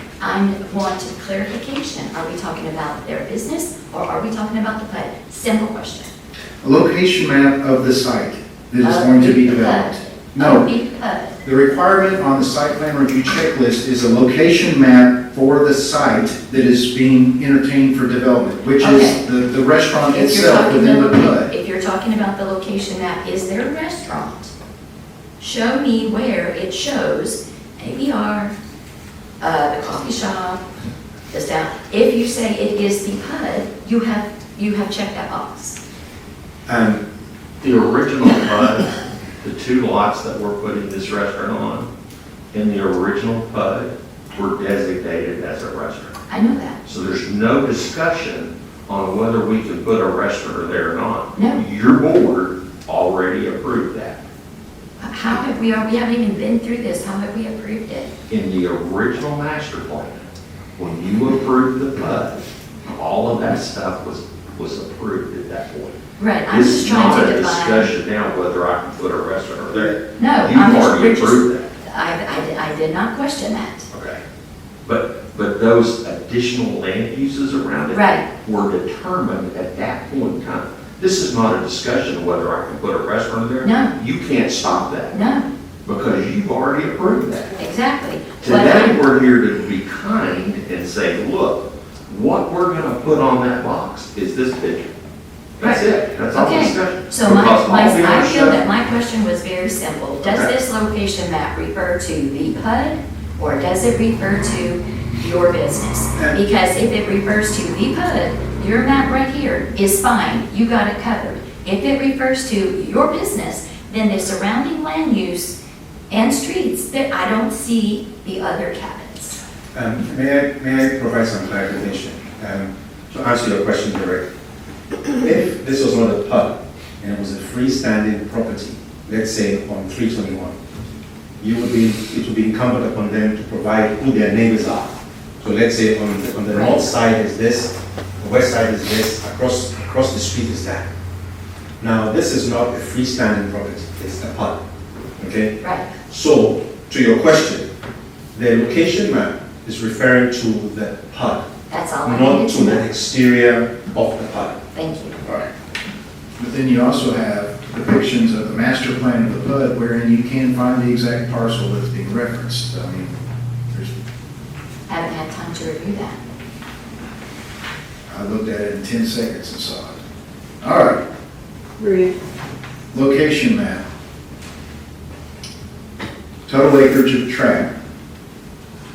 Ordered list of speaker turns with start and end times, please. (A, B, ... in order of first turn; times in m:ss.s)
0:00.2-0:06.1 A
0:06.6-0:10.7 B
0:08.8-0:11.3 A
0:11.4-0:21.5 B
0:18.8-0:19.2 A
0:20.1-0:24.5 A
0:25.4-0:28.6 A
0:29.4-0:30.6 A
0:31.3-0:35.8 A
0:36.7-0:37.0 C
0:37.6-0:41.9 D
0:42.5-0:46.2 D
0:46.3-0:46.8 A
0:46.8-0:54.2 D
0:51.4-0:51.6 A
0:55.0-0:58.1 A
0:58.3-1:11.7 D
1:06.2-1:07.9 A
1:10.2-1:13.9 A
1:13.9-1:14.2 D
1:14.8-1:25.2 D
1:17.9-1:18.2 A
1:23.6-1:23.9 A
1:25.1-1:25.5 A
1:25.8-1:27.6 D
1:27.6-1:29.0 A
1:28.4-1:34.9 D
1:35.6-1:38.6 D
1:36.4-1:55.6 A
1:40.2-1:40.5 D
1:56.1-1:59.4 A
1:59.7-2:04.3 C
2:05.2-2:10.6 C
2:11.4-2:20.9 C
2:16.5-2:16.9 A
2:21.8-2:24.6 C
2:25.2-2:27.7 C
2:25.6-2:25.9 A
2:28.3-2:31.5 C
2:31.7-2:32.9 A
2:32.0-2:34.6 C
2:34.7-2:35.2 A
2:36.4-2:44.0 B
2:44.9-2:46.2 A
2:48.1-2:50.0 B
2:50.6-2:51.0 B
2:52.9-2:53.9 B
2:56.5-2:57.7 B